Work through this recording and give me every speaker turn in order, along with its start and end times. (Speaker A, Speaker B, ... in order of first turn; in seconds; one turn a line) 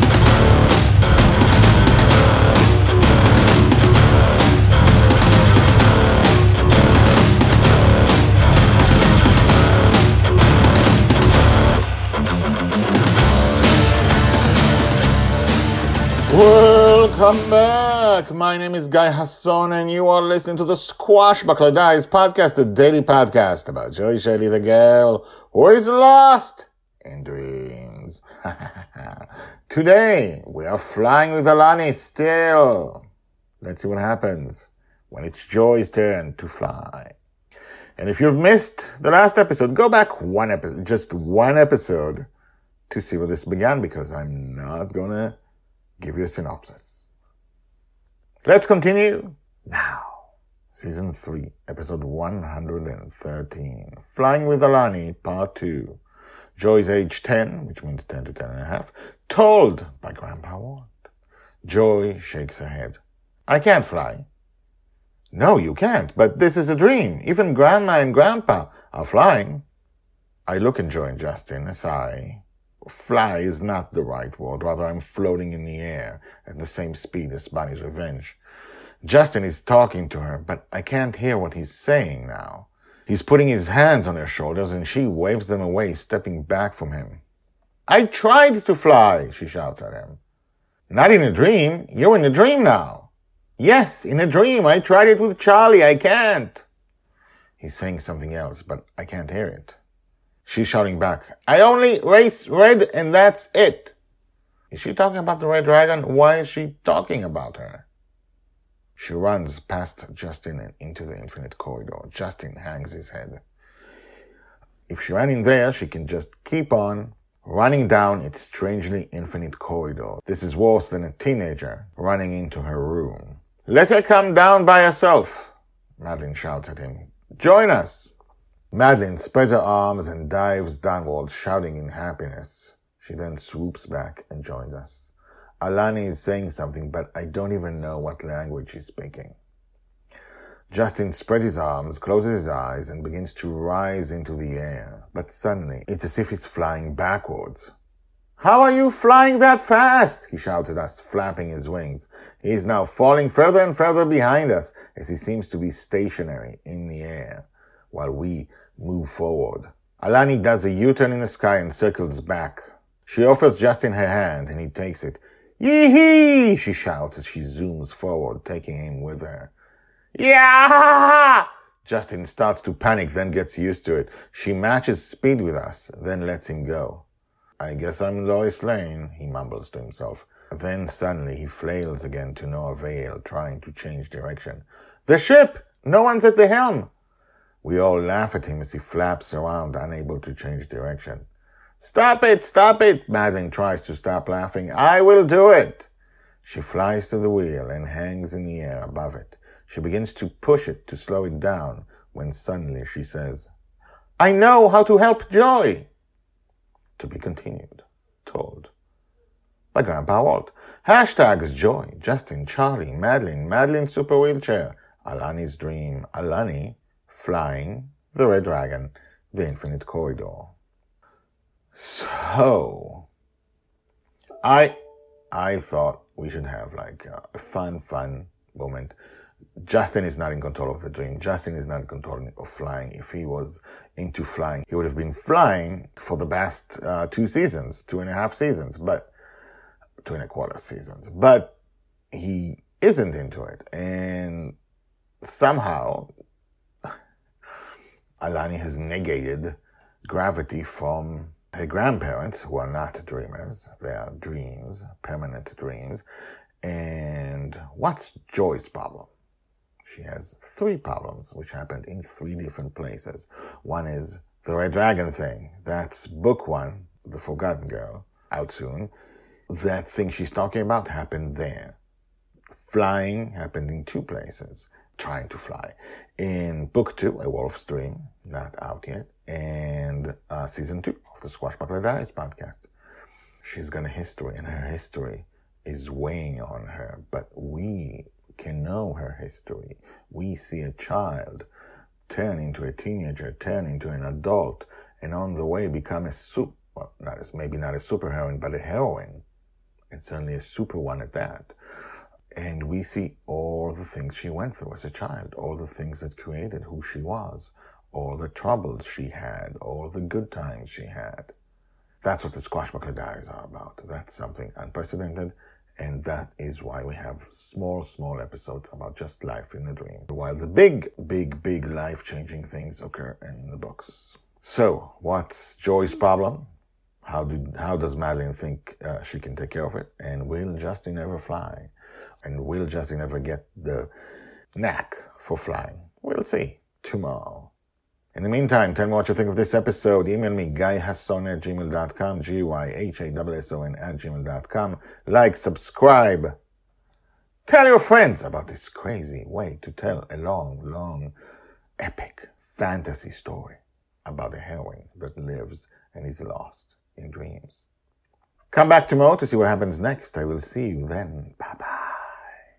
Speaker A: 16.3-33.0
Speaker A: 33.6-37.2
Speaker A: 38.0-42.3
Speaker A: 42.9-45.4
Speaker A: 46.0-47.0
Speaker A: 48.5-56.0
Speaker A: 56.5-60.9
Speaker A: 61.6-64.3
Speaker A: 65.3-69.6
Speaker A: 70.5-78.4
Speaker A: 79.0-87.2
Speaker A: 87.9-90.2
Speaker A: 90.9-96.7
Speaker A: 97.6-99.8
Speaker A: 100.4-103.9
Speaker A: 104.7-107.8
Speaker A: 109.0-113.4
Speaker A: 114.9-128.1
Speaker A: 128.7-139.4
Speaker A: 140.7-147.7
Speaker A: 148.4-169.5
Speaker A: 170.2-177.1
Speaker A: 177.6-186.9
Speaker A: 187.6-191.2
Speaker A: 191.8-195.9
Speaker A: 196.4-203.5
Speaker A: 204.2-205.9
Speaker A: 207.0-208.7
Speaker A: 209.7-220.5
Speaker A: 221.7-223.1
Speaker A: 224.4-224.8
Speaker A: 225.3-228.9
Speaker A: 229.6-239.1
Speaker A: 240.0-241.6
Speaker A: 242.1-244.6
Speaker A: 245.2-246.1
Speaker A: 248.2-256.0
Speaker A: 256.6-259.1
Speaker A: 259.8-268.9
Speaker A: 269.5-271.8
Speaker A: 272.6-282.7
Speaker A: 283.4-291.5
Speaker A: 292.1-299.2
Speaker A: 299.9-301.5
Speaker A: 302.4-311.3
Speaker A: 312.0-326.5
Speaker A: 327.0-331.7
Speaker A: 332.2-333.9
Speaker A: 334.6-337.5
Speaker A: 338.1-346.4
Speaker A: 347.5-351.1
Speaker A: 351.8-357.7
Speaker A: 358.5-362.4